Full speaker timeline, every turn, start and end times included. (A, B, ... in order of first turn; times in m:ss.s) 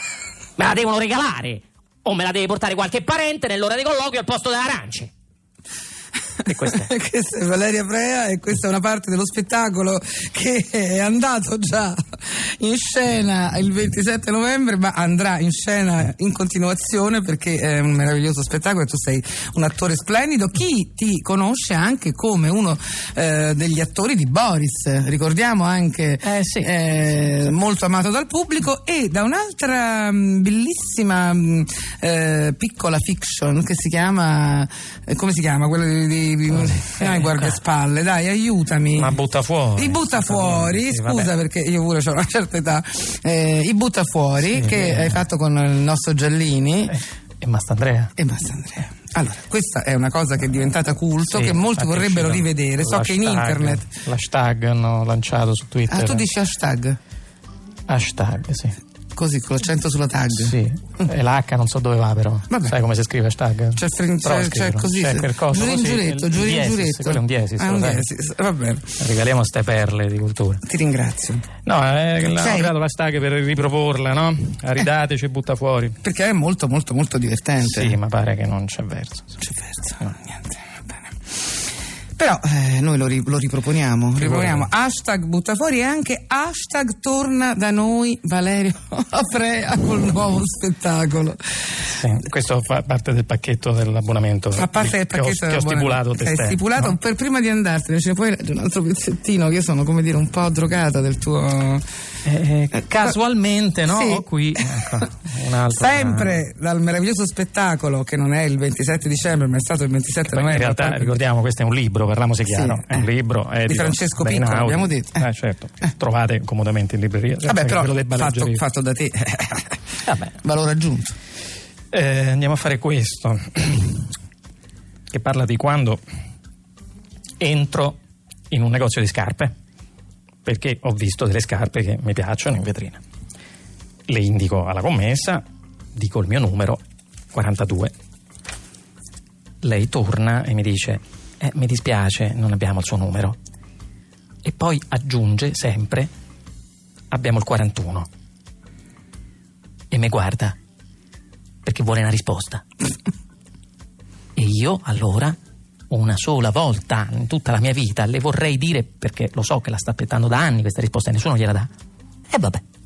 0:00.6-0:05.1 A
0:06.4-0:06.9 A
0:06.6-0:39.1 B
0:26.2-0:26.7 A
0:36.6-0:37.4 A
0:39.0-0:41.3 A
0:39.8-0:47.0 B
0:44.4-0:45.2 A
0:46.9-0:48.1 A
0:48.2-0:53.9 B
0:51.2-0:56.2 A
0:55.9-0:57.0 B
0:57.9-0:58.8 A
0:59.1-1:01.1 B
1:00.3-1:08.0 A
1:02.5-1:02.8 B
1:03.8-1:09.0 B
1:09.0-1:10.6 A
1:10.6-1:11.5 B
1:11.6-1:16.0 A
1:12.2-1:12.7 B
1:16.0-1:18.0 B
1:17.6-1:19.4 A
1:19.4-1:21.1 B
1:22.2-1:31.4 B
1:24.2-1:24.6 A
1:31.9-1:37.0 A
1:34.5-1:41.8 B
1:42.2-1:46.4 A
1:43.9-1:45.1 B
1:45.7-1:51.1 B
1:50.2-1:58.6 A
1:52.5-1:53.0 B
1:53.7-1:55.2 B
1:57.4-1:59.8 B
2:00.1-2:00.3 A
2:00.4-2:01.1 B
2:01.9-2:04.1 A
2:05.1-2:06.0 A
2:07.4-2:08.0 A
2:08.5-2:09.5 A
2:10.4-2:13.0 A
2:14.1-2:15.4 A
2:16.0-2:16.8 A
2:17.3-2:17.9 A
2:19.6-2:23.4 A
2:24.4-2:26.1 A
2:27.1-2:28.1 A
2:29.9-2:30.6 A
2:31.6-2:32.6 A
2:34.4-2:35.4 A
2:35.9-2:41.7 A
2:42.3-2:42.6 A